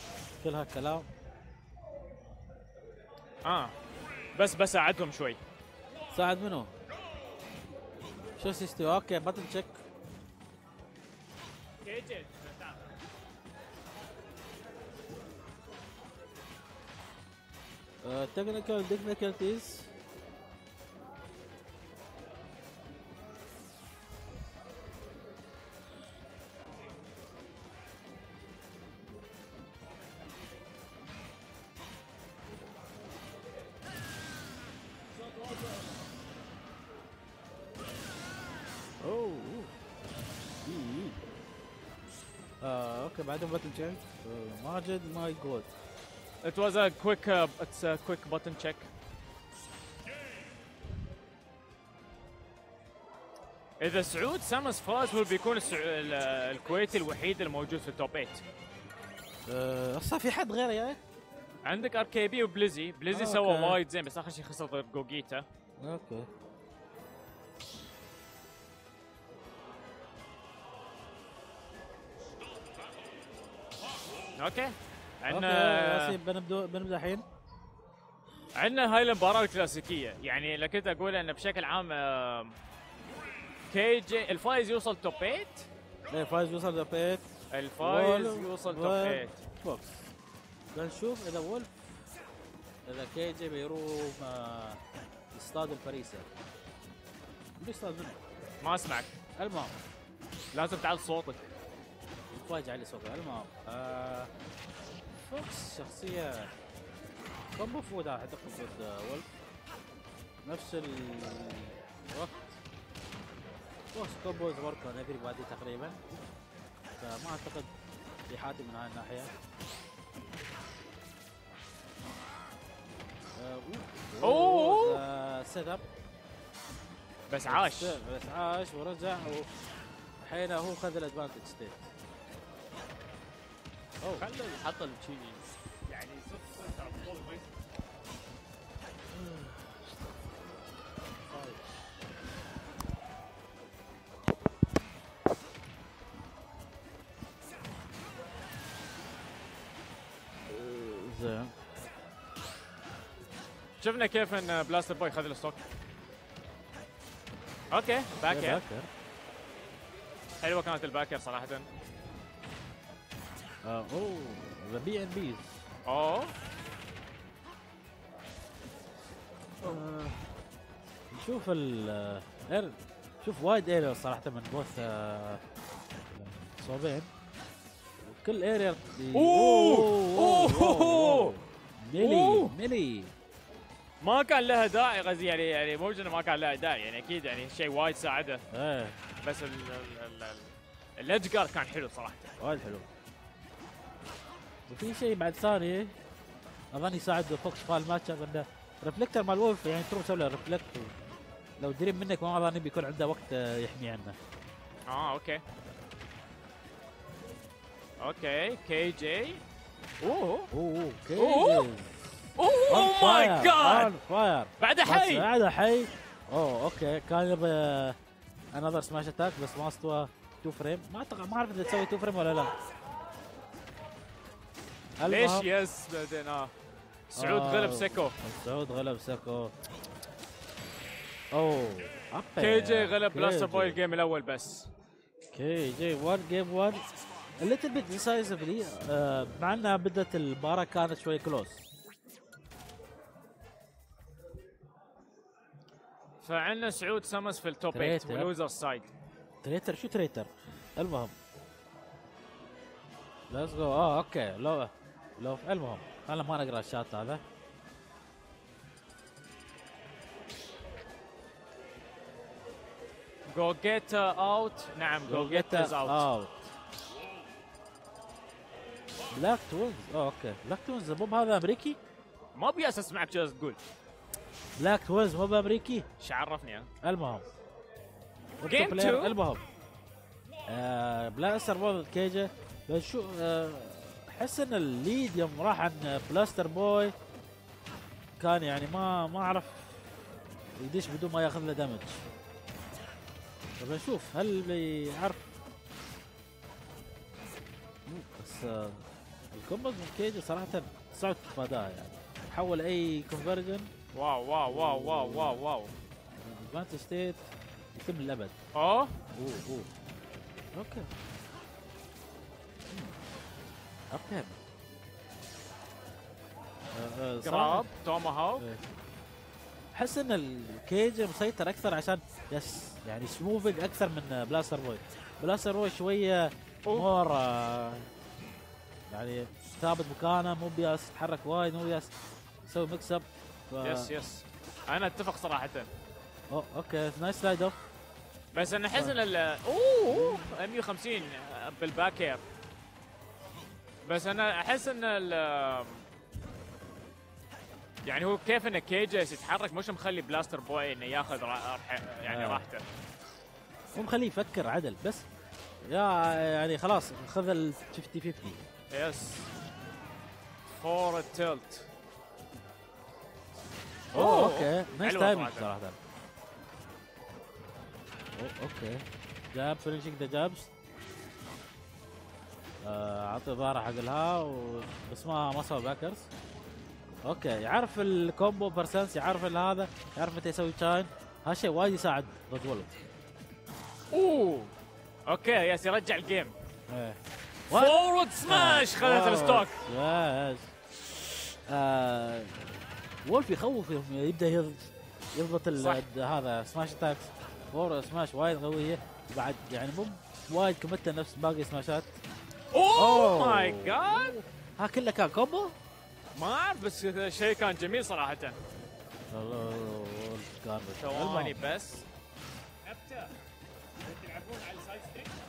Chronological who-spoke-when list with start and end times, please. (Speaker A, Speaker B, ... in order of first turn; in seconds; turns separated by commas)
Speaker A: 0.4-1.1, Speaker B: 3.4-3.7, Speaker B: 4.3-5.4, Speaker A: 6.1-6.7, Speaker A: 8.4-9.8, Speaker B: 11.8-12.8, Speaker A: 18.0-19.9, Speaker A: 39.0-39.7, Speaker A: 40.6-41.2, Speaker A: 42.6-45.7, Speaker B: 46.4-48.9, Speaker B: 53.8-58.4, Speaker A: 59.5-61.0, Speaker B: 61.6-65.4, Speaker A: 63.1-63.8, Speaker A: 65.8-66.3, Speaker B: 74.4-76.2, Speaker A: 75.3-77.2, Speaker B: 78.5-82.5, Speaker B: 83.7-85.7, Speaker A: 86.1-87.2, Speaker B: 87.5-89.4, Speaker A: 87.8-90.1, Speaker A: 90.7-91.7, Speaker A: 92.9-94.8, Speaker A: 95.3-96.3, Speaker A: 97.6-98.2, Speaker B: 98.6-99.1, Speaker A: 99.3-99.8, Speaker B: 100.5-101.5, Speaker A: 102.3-104.3, Speaker A: 105.2-106.5, Speaker A: 107.5-109.3, Speaker A: 110.4-112.6, Speaker A: 113.9-116.0, Speaker A: 117.0-117.7, Speaker A: 118.3-119.3, Speaker A: 123.3-125.8, Speaker B: 124.2-125.0, Speaker B: 127.3-128.0, Speaker A: 127.5-129.5, Speaker A: 130.2-131.9, Speaker A: 134.0-134.3, Speaker B: 134.2-137.4, Speaker A: 139.2-139.6, Speaker A: 141.3-141.6, Speaker A: 150.5-151.5, Speaker B: 153.8-155.6, Speaker B: 157.7-158.6, Speaker A: 158.3-158.9, Speaker B: 160.4-161.7, Speaker A: 163.6-165.6, Speaker B: 165.8-166.3, Speaker A: 169.6-170.2, Speaker A: 171.1-175.4, Speaker A: 176.1-177.1, Speaker A: 178.0-183.1, Speaker B: 179.1-181.3, Speaker B: 182.0-182.5, Speaker B: 184.0-188.4, Speaker A: 188.5-189.0, Speaker B: 189.2-192.3, Speaker A: 192.4-192.8, Speaker A: 194.7-195.9, Speaker A: 196.7-200.9, Speaker A: 201.6-204.2, Speaker B: 204.9-205.4, Speaker B: 208.0-209.4, Speaker B: 210.0-210.5, Speaker A: 210.5-212.1, Speaker B: 211.2-211.7, Speaker B: 212.4-213.9, Speaker A: 212.7-217.9, Speaker B: 214.6-215.3, Speaker A: 218.5-222.5, Speaker A: 225.0-225.5, Speaker B: 225.0-226.5, Speaker B: 227.1-228.2, Speaker A: 227.2-229.5, Speaker A: 231.3-233.8, Speaker B: 232.4-234.7, Speaker A: 235.3-236.8, Speaker A: 237.4-241.6, Speaker B: 246.2-248.9, Speaker A: 247.7-248.3, Speaker A: 249.4-251.1, Speaker A: 253.3-257.2, Speaker B: 263.3-266.1, Speaker A: 265.1-266.5, Speaker A: 269.1-271.8, Speaker B: 272.3-273.6, Speaker A: 274.6-275.9, Speaker B: 276.0-276.7, Speaker A: 276.8-277.2, Speaker A: 278.4-279.4, Speaker B: 278.4-279.2, Speaker A: 280.5-286.9, Speaker A: 288.2-289.7, Speaker A: 290.6-292.0, Speaker A: 293.6-295.3, Speaker A: 297.9-303.7, Speaker B: 303.9-305.7, Speaker A: 304.5-305.4, Speaker A: 306.2-307.2, Speaker A: 307.7-308.3, Speaker B: 308.5-309.0, Speaker A: 309.1-309.7, Speaker A: 310.5-310.9, Speaker A: 313.9-314.4, Speaker A: 316.7-317.7, Speaker B: 317.2-318.4, Speaker A: 319.7-327.9, Speaker A: 328.9-331.9, Speaker A: 332.4-333.9, Speaker B: 333.6-335.7, Speaker A: 336.3-337.6, Speaker B: 338.3-342.2, Speaker A: 339.9-340.3, Speaker B: 343.8-345.8, Speaker B: 347.8-352.6, Speaker A: 352.1-352.4, Speaker A: 353.7-355.1, Speaker A: 355.6-358.4, Speaker B: 358.7-359.3, Speaker B: 360.5-361.6, Speaker B: 363.9-365.5, Speaker A: 363.9-365.8, Speaker A: 368.2-370.5, Speaker A: 372.6-376.1, Speaker A: 377.0-382.7, Speaker B: 383.9-384.5, Speaker B: 385.1-386.3, Speaker A: 386.7-387.0, Speaker A: 387.5-390.5, Speaker B: 387.5-389.6, Speaker A: 391.5-402.0, Speaker B: 395.5-395.8, Speaker B: 402.5-404.2, Speaker A: 402.8-405.5, Speaker B: 406.1-408.4, Speaker A: 409.1-411.4, Speaker B: 410.8-411.8, Speaker B: 412.6-413.1, Speaker B: 413.8-415.1